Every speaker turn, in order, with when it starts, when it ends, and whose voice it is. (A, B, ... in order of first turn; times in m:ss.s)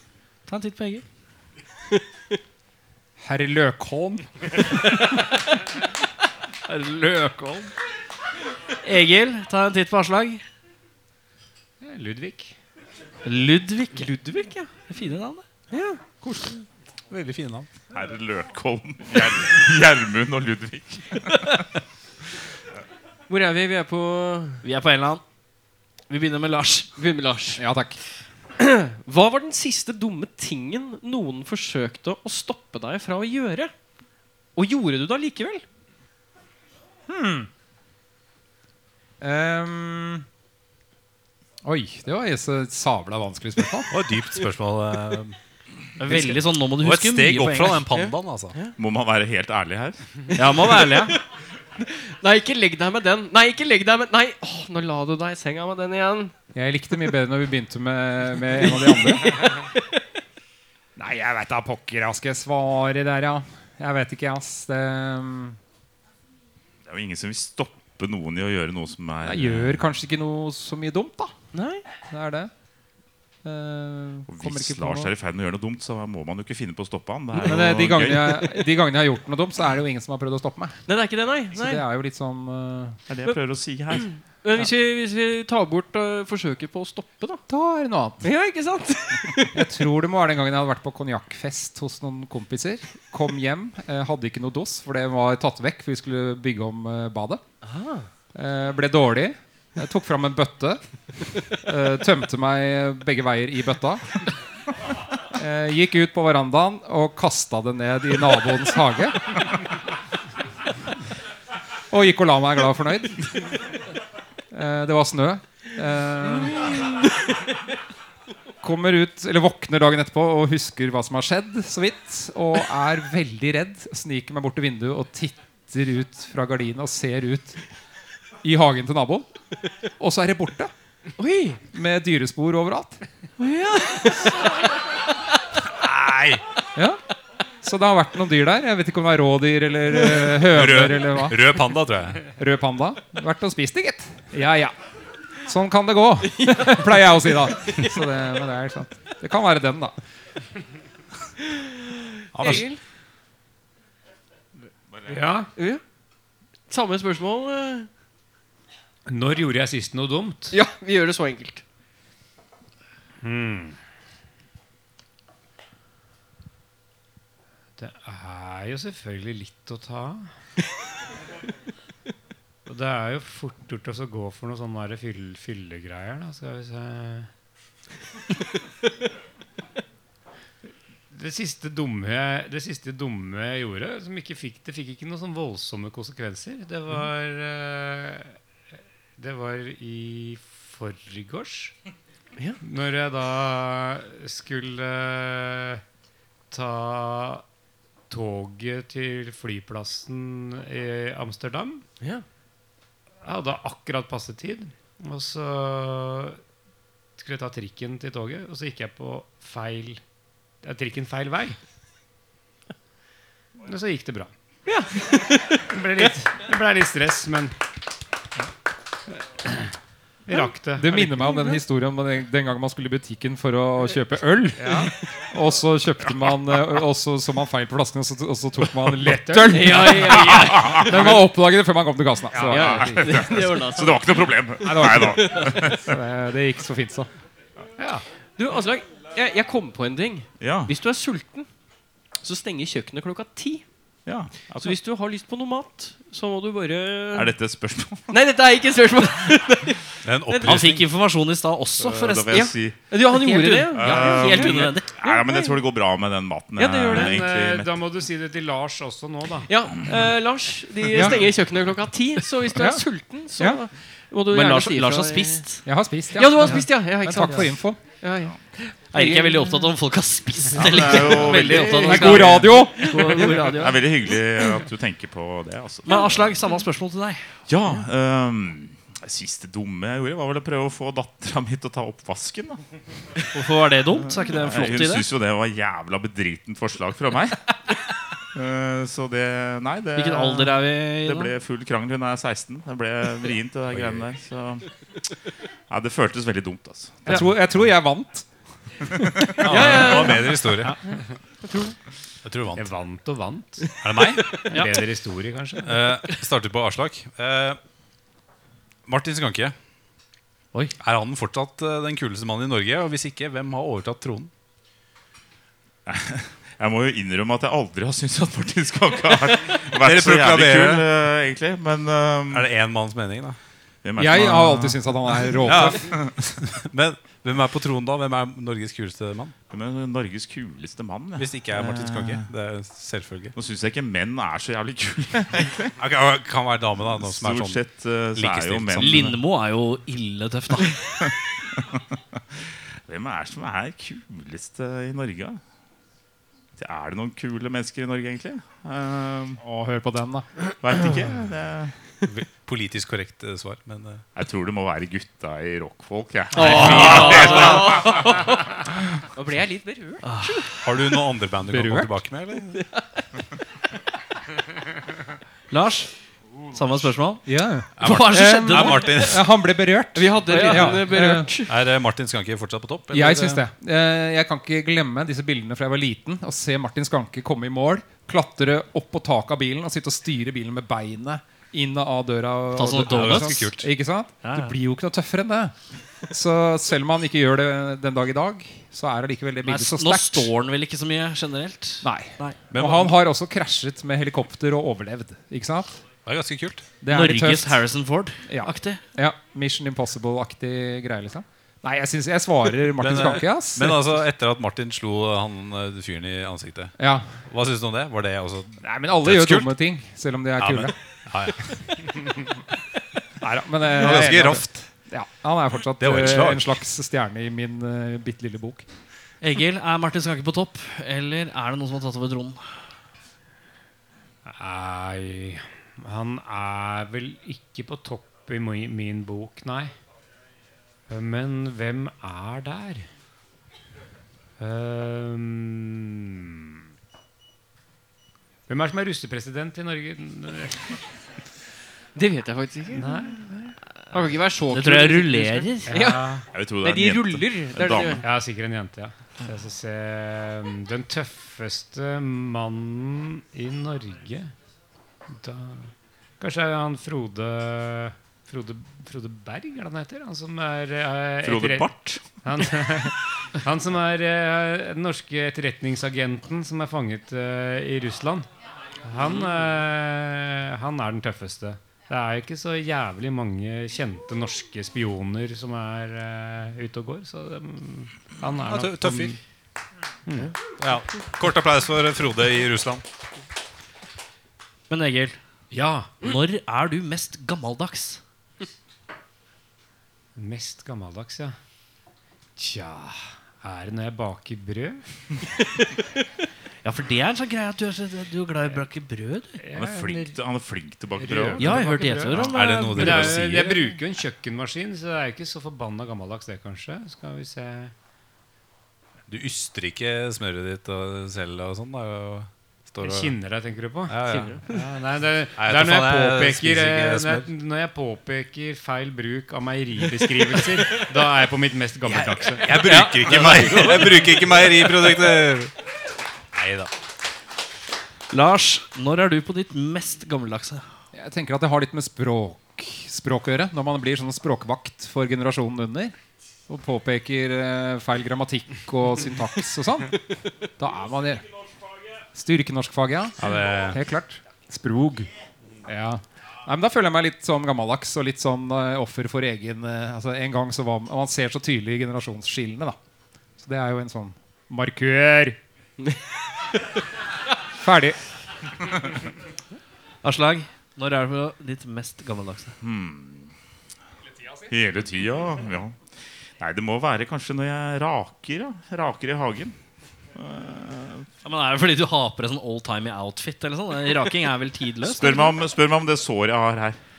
0:00.5-0:01.0 A
0:03.2-0:04.5 B
0:06.7-0:07.7 A
0:08.8-0:10.4 A
0:11.8-0:12.6 C
0:13.2-0:15.4 A
0:14.4-0:14.7 D
0:15.7-0:16.0 D
0:17.1-0:17.7 E
0:17.9-0:21.6 F
0:23.3-0:24.6 D
0:24.6-0:25.2 A
0:26.1-0:27.0 A
0:27.0-0:27.6 D
0:27.6-0:28.0 B
0:28.6-0:33.7 D
0:34.6-0:35.6 D
0:37.1-0:37.5 B
0:39.2-0:40.2 B
0:41.6-0:44.0 B
0:43.9-0:45.4 E
0:46.0-0:47.8 A
0:46.1-0:48.6 E
0:47.9-0:48.7 D
0:48.8-0:50.0 F
0:50.4-0:51.2 A
0:50.6-0:51.2 D
0:51.8-0:56.3 D
0:56.6-0:59.5 B
1:01.0-1:05.6 B
1:06.8-1:09.9 F
1:09.2-1:11.3 B
1:11.5-1:11.8 D
1:12.1-1:12.5 B
1:13.4-1:15.1 B
1:14.3-1:18.5 F
1:17.4-1:20.8 B
1:20.9-1:21.8 D
1:21.5-1:23.0 B
1:23.1-1:24.1 F
1:24.0-1:27.4 D
1:27.5-1:28.3 B
1:28.2-1:29.7 D
1:29.5-1:37.4 B
1:37.6-1:38.1 D
1:38.4-1:44.2 B
1:45.4-1:49.6 B
1:51.9-1:53.6 B
1:54.5-1:56.9 B
1:58.6-2:07.6 B
2:08.4-2:09.3 B
2:10.0-2:10.7 B
2:11.2-2:11.6 D
2:11.7-2:13.0 B
2:13.4-2:14.5 D
2:15.8-2:16.4 E
2:16.8-2:17.0 B
2:17.6-2:21.5 B
2:20.4-2:22.3 E
2:22.3-2:24.8 B
2:25.5-2:30.0 B
2:26.4-2:26.8 D
2:32.3-2:32.7 E
2:32.4-2:32.8 D
2:34.9-2:35.2 F
2:35.1-2:35.5 C
2:35.6-2:35.8 D
2:36.7-2:37.9 D
2:39.1-2:40.6 C
2:40.5-2:41.6 D
2:43.2-2:43.8 C
2:47.8-2:50.3 C
2:52.7-2:57.3 C
3:01.1-3:08.4 C
3:09.2-3:11.8 C
3:12.6-3:15.8 C
3:16.5-3:17.4 C
3:18.1-3:21.8 C
3:23.2-3:26.4 C
3:27.2-3:30.0 C
3:30.6-3:31.6 C
3:33.6-3:34.3 C
3:34.7-3:35.6 D
3:35.6-3:37.6 C
3:39.4-3:39.7 C
3:40.3-3:41.1 C
3:40.8-3:53.2 B
3:44.6-3:44.9 C
3:49.2-3:49.8 C
3:49.4-3:51.2 D
3:50.3-3:51.1 F
3:52.3-3:53.2 C
3:52.5-3:54.1 D
3:52.8-3:56.0 F
3:54.6-3:55.6 D
3:54.6-3:57.1 B
3:57.8-3:58.0 C
3:58.4-4:01.5 D
4:00.4-4:00.7 F
4:02.2-4:03.6 D
4:04.1-4:04.8 F
4:04.6-4:07.3 D
4:07.1-4:08.1 F
4:08.1-4:10.6 D
4:10.0-4:10.8 E
4:10.4-4:12.5 A
4:11.8-4:12.8 F
4:12.3-4:15.6 D
4:13.2-4:14.9 A
4:13.7-4:17.7 F
4:16.6-4:17.2 D
4:16.8-4:19.5 C
4:19.5-4:25.6 D
4:20.9-4:21.3 B
4:22.5-4:22.9 B
4:23.4-4:23.6 B
4:24.3-4:25.6 A
4:25.6-4:27.8 B
4:26.1-4:29.5 D
4:28.9-4:33.8 A
4:30.5-4:32.0 F
4:31.2-4:33.8 D
4:31.8-4:33.3 B
4:33.5-4:36.4 F
4:35.9-4:37.5 A
4:37.5-4:42.6 F
4:43.3-4:45.1 A
4:44.2-4:47.4 F
4:48.3-4:54.7 F
4:50.0-4:51.3 A
4:53.7-4:54.0 E
4:55.7-4:57.2 F
4:57.1-4:58.3 B
4:59.4-5:00.4 D
4:59.4-5:00.8 E
5:00.6-5:01.0 C
5:01.4-5:01.8 D
5:02.2-5:02.7 E
5:02.6-5:03.8 C
5:03.8-5:04.2 E
5:04.0-5:04.2 B
5:04.4-5:05.9 C
5:05.6-5:07.6 E
5:08.9-5:09.6 E
5:10.8-5:14.3 E
5:15.9-5:22.5 F
5:19.8-5:20.8 E
5:22.3-5:23.4 E
5:23.8-5:26.2 F
5:24.0-5:26.0 B
5:25.4-5:29.4 E
5:29.5-5:32.2 F
5:31.2-5:33.3 E
5:33.4-5:35.7 F
5:35.8-5:37.6 E
5:36.9-5:39.2 F
5:38.1-5:39.2 E
5:38.7-5:41.0 A
5:41.6-5:41.8 F
5:42.9-5:45.4 F
5:46.6-5:49.4 F
5:49.4-5:50.3 B
5:50.6-5:51.7 F
5:52.1-5:54.0 E
5:54.2-5:58.2 F
5:56.4-5:57.9 A
5:56.4-5:58.5 D
5:56.4-5:57.0 E
5:59.1-6:00.5 D
6:00.0-6:00.5 A
6:00.6-6:02.6 E
6:01.5-6:01.9 B
6:05.5-6:05.9 A
6:06.5-6:09.2 A
6:07.3-6:11.3 B
6:07.8-6:09.3 E
6:10.0-6:11.5 D
6:10.8-6:13.4 E
6:12.9-6:25.6 B
6:22.6-6:23.6 A
6:22.8-6:23.7 E
6:24.2-6:24.6 A
6:26.1-6:30.3 B
6:29.4-6:32.4 A
6:31.8-6:35.8 B
6:32.5-6:33.0 E
6:36.0-6:36.7 E
6:36.8-6:37.6 B
6:36.9-6:38.8 A
6:38.3-6:43.9 B
6:42.8-6:49.6 E
6:46.8-6:47.2 B
6:48.6-6:50.8 B
6:50.4-6:51.6 E
6:53.2-6:58.7 B
6:53.7-6:54.5 E
6:55.8-6:56.6 E
6:59.2-7:02.5 A
7:04.3-7:09.7 C
7:10.9-7:12.9 C
7:14.4-7:16.5 C
7:18.5-7:20.8 C
7:22.0-7:23.0 D
7:22.8-7:23.6 C
7:23.9-7:28.0 D
7:24.5-7:25.7 A
7:25.7-7:26.3 C
7:26.3-7:28.0 F
7:28.0-7:34.3 C
7:35.1-7:41.7 C
7:41.2-7:42.0 F
7:42.2-7:48.3 C
7:48.8-7:59.2 C
7:58.5-7:59.2 E
8:00.1-8:00.3 C
8:00.6-8:02.8 E
8:04.7-8:05.2 A
8:05.5-8:06.1 C
8:06.0-8:08.0 A
8:10.2-8:11.4 C
8:12.4-8:14.8 C
8:16.6-8:19.4 A
8:19.4-8:20.2 C
8:19.5-8:22.2 F
8:21.0-8:27.7 C
8:21.4-8:23.3 A
8:22.2-8:23.7 E
8:29.1-8:33.2 E
8:32.8-8:42.7 C
8:33.9-8:34.4 E
8:34.1-8:34.4 D
8:35.4-8:37.3 E
8:41.8-8:45.5 E
8:42.7-8:43.7 A
8:42.7-8:44.0 D
8:46.3-8:46.7 E
8:48.1-8:50.6 A
8:50.9-8:56.0 B
8:56.5-9:01.3 B
9:02.1-9:05.1 B
9:03.2-9:03.8 E
9:05.6-9:12.8 B
9:13.4-9:15.4 B
9:17.6-9:18.0 B
9:20.0-9:22.6 A
9:22.6-9:23.3 F
9:24.5-9:25.8 F
9:26.4-9:29.6 F
9:30.2-9:31.1 F
9:31.2-9:35.4 A
9:34.8-9:36.8 F